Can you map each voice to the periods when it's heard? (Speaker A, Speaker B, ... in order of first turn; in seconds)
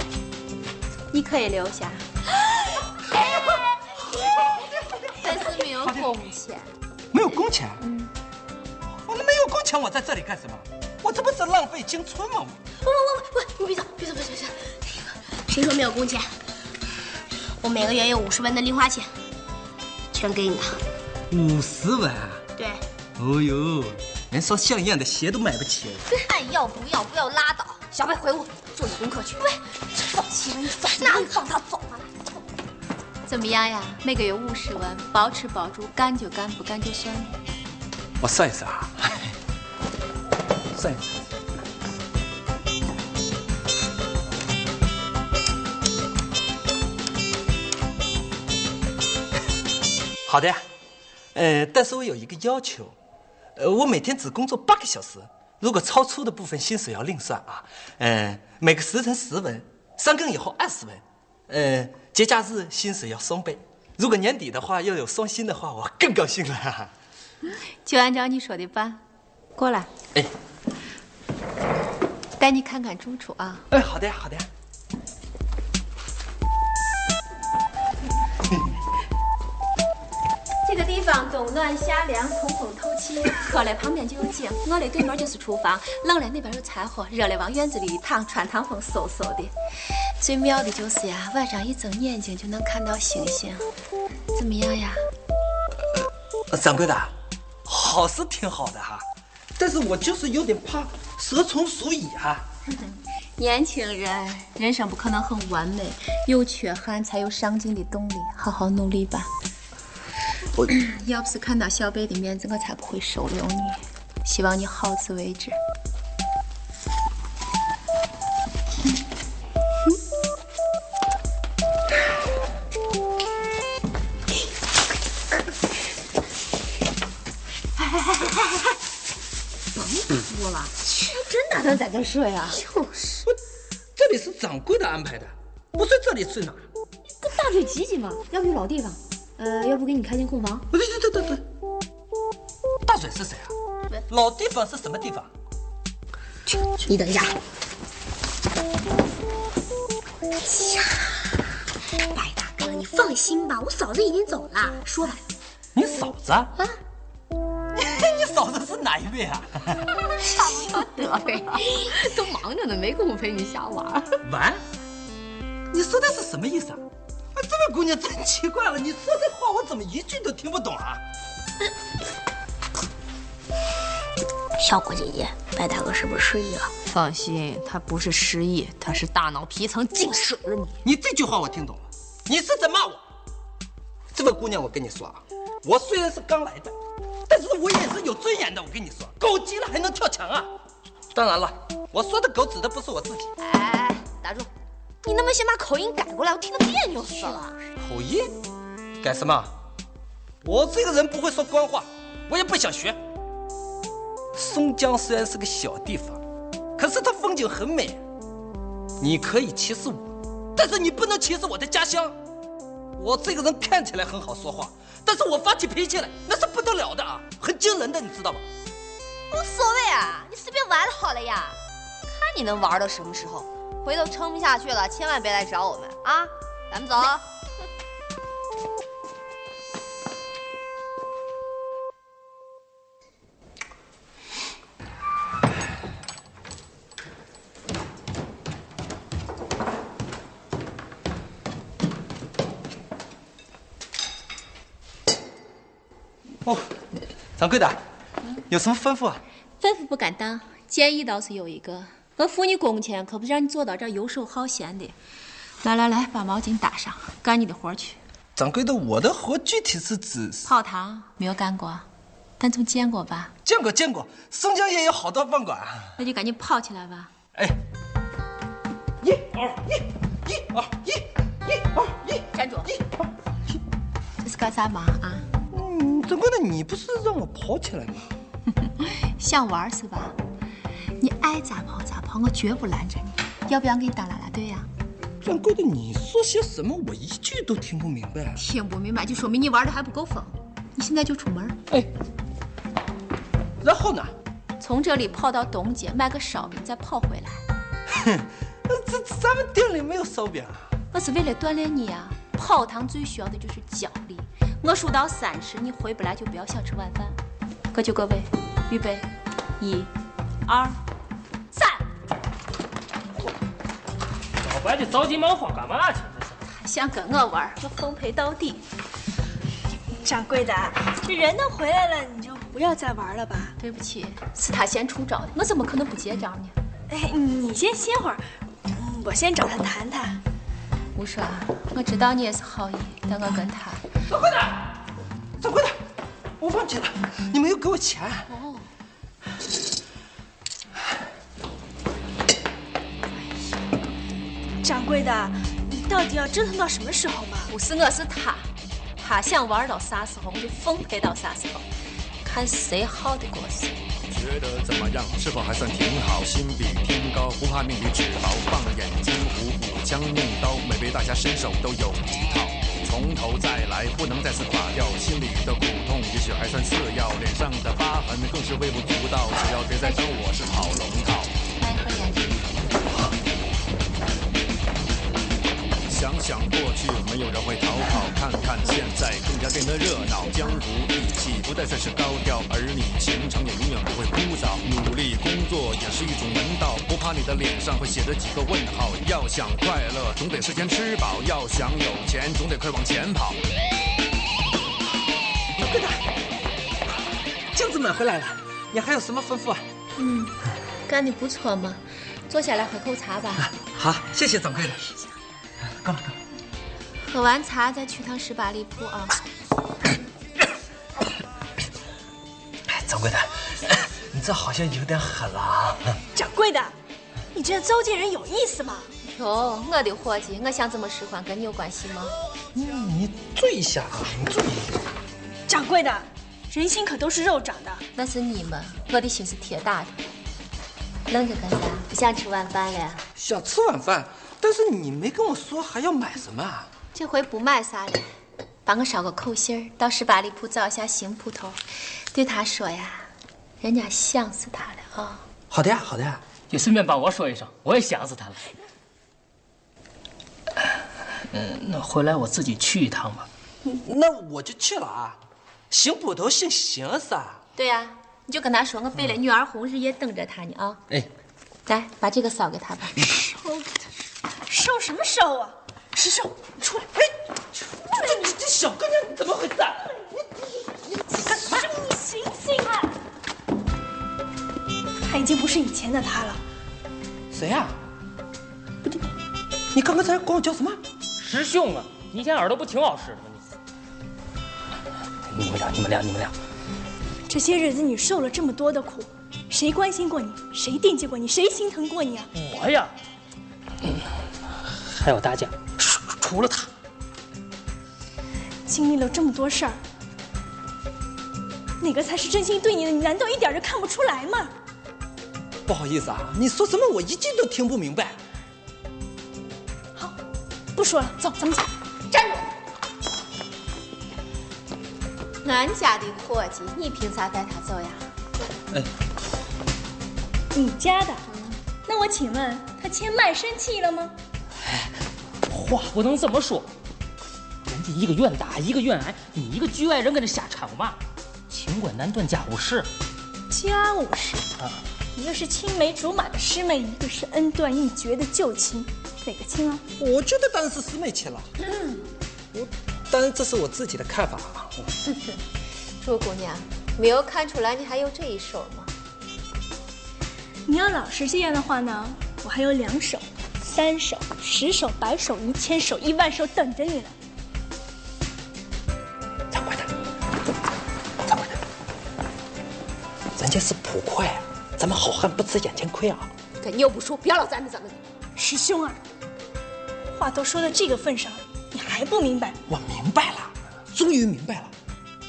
Speaker A: 1.1-2.0, 5.2-6.7, 7.8-8.1, 33.2-37.3, 67.8-69.0, 69.5-69.9, 72.4-73.6, 80.6-89.5, 90.2-93.7, 94.3-95.0, 102.8-109.3, 110.7-115.6, 132.0-132.6, 138.1-138.8, 140.0-140.6, 249.6-254.9, 255.6-258.0, 260.4-261.9, 262.4-263.3, 266.0-267.1, 272.3-272.7, 274.2-275.3, 278.7-280.1, 281.0-284.7, 288.4-291.6, 294.6-297.4, 300.9-307.2, 307.7-309.1, 309.6-309.9, 310.4-310.8, 316.5-318.6, 323.6-326.5, 330.9-333.8, 338.3-338.6, 347.5-348.5, 349.0-351.6, 352.2-353.7, 371.6-372.5, 400.0-400.3, 400.9-403.5, 407.0-409.2, 419.1-422.1, 427.9-430.0, 431.1-433.0, 436.9-438.1, 438.6-441.6, 442.1-443.1, 443.6-445.2, 457.6-460.8, 461.7-463.1, 512.1-512.4, 515.4-518.0, 521.3-521.5, 546.0-548.9, 566.6-567.9
Speaker B: 3.1-3.5, 12.8-16.3, 17.6-19.1, 20.1-20.8, 22.6-22.8, 30.9-31.4, 146.5-147.3, 150.4-151.3, 152.1-155.2, 174.6-176.7, 197.2-197.4
Speaker C: 5.8-6.1, 7.1-7.8, 9.0-12.6, 21.3-22.4, 23.2-26.0, 38.2-39.3, 40.7-41.2, 50.2-50.6, 51.3-52.9, 53.5-66.9, 73.7-74.5, 95.9-97.1, 97.7-99.0, 99.6-102.5, 133.9-136.6, 140.7-141.4, 142.8-143.5, 144.1-145.3, 155.7-156.5, 157.7-159.8, 164.2-164.6, 165.7-166.8, 167.3-171.0, 180.8-183.0, 184.1-186.7, 187.3-190.5, 191.1-193.3, 197.8-198.3, 199.0-199.5, 200.4-203.0, 204.3-206.2, 206.8-208.0, 209.0-212.2, 213.0-218.4, 247.4-247.8, 248.5-249.2, 258.4-260.5, 263.4-265.9, 269.0-273.6, 275.5-278.1, 285.2-288.4, 293.6-294.1, 297.9-300.7, 334.1-334.7, 335.4-335.8, 336.4-338.3, 395.6-396.0, 397.5-399.6, 403.6-404.8, 405.8-406.1, 412.7-416.0, 422.5-424.7, 433.2-436.7, 445.5-446.2, 453.7-455.2, 455.7-457.4, 467.6-471.7, 477.3-477.8, 479.7-480.8, 505.7-508.2, 540.0-541.5, 542.5-544.9, 559.5-559.9, 561.2-561.6, 563.4-566.3, 572.7-574.7
Speaker D: 26.1-29.6, 30.2-32.1, 130.1-130.7, 131.3-132.0, 137.8-138.2, 139.4-140.1, 160.2-164.2, 176.8-180.8, 193.4-194.5, 195.0-197.5, 219.3-227.2
Speaker E: 314.4-316.4, 446.5-448.4, 451.3-453.3, 481.2-483.4, 485.3-486.3, 492.3-492.9, 494.8-496.7, 525.5-526.7, 527.7-531.0, 531.5-532.9
Speaker F: 320.0-323.5, 326.9-330.2, 344.6-347.5, 416.1-416.7, 417.3-418.9, 425.5-427.8, 463.4-463.9, 464.5-466.9, 471.1-472.9, 475.0-476.4, 487.3-492.3, 498.6-499.8, 501.8-504.5, 510.7-511.7, 520.5-521.2, 521.8-524.1, 533.5-534.5, 535.1-539.8, 550.6-557.1, 568.4-569.0, 570.1-572.6
Speaker G: 354.1-371.3, 375.9-393.4